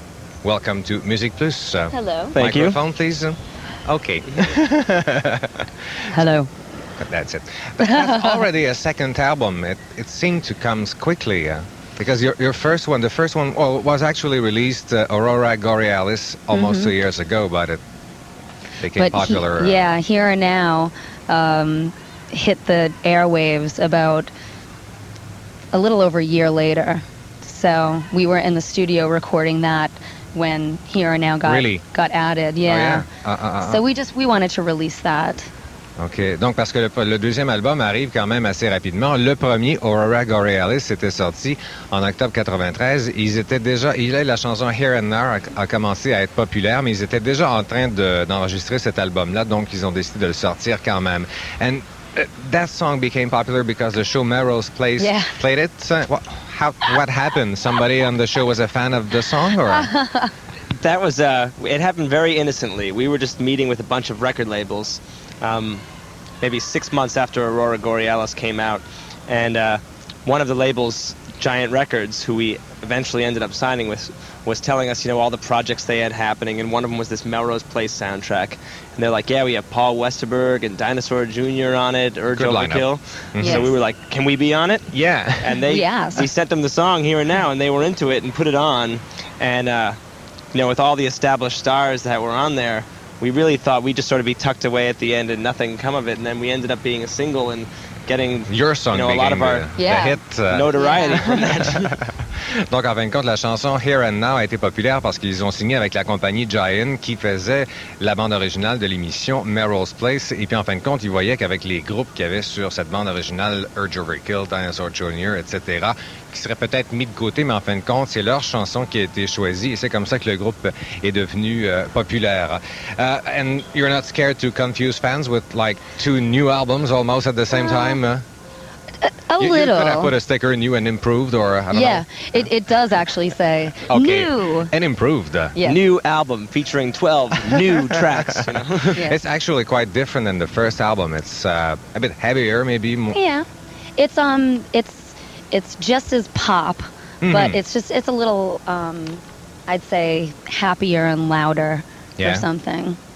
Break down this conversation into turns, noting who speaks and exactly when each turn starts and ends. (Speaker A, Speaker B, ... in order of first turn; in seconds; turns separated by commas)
Speaker A: 0.4-5.7, Speaker B: 1.9-2.4, Speaker C: 2.4-2.8, Speaker B: 6.1-6.5, Speaker A: 7.0-17.8, Speaker B: 7.8-8.4, Speaker B: 16.5-16.9, Speaker A: 18.8-19.9, Speaker B: 18.9-24.3, Speaker B: 25.7-33.1, Speaker A: 31.4-31.8, Speaker A: 32.6-33.8, Speaker B: 33.6-35.5, Speaker A: 36.0-59.9, Speaker B: 55.0-55.4, Speaker B: 59.6-60.3, Speaker C: 60.8-65.8, Speaker C: 66.4-90.0, Speaker A: 82.3-83.7, Speaker B: 83.4-83.7, Speaker A: 84.9-85.6, Speaker B: 85.7-86.3, Speaker C: 90.5-99.7, Speaker A: 98.5-128.2, Speaker B: 99.8-100.2, Speaker C: 100.5-102.0, Speaker B: 100.8-101.3, Speaker B: 127.5-128.0, Speaker B: 129.0-130.2, Speaker A: 129.4-132.3, Speaker B: 131.7-134.7, Speaker A: 133.9-135.6, Speaker B: 135.6-135.8, Speaker C: 135.6-139.0, Speaker A: 138.3-143.2, Speaker B: 143.1-143.5, Speaker B: 144.0-153.0, Speaker A: 147.2-147.6, Speaker A: 152.2-152.5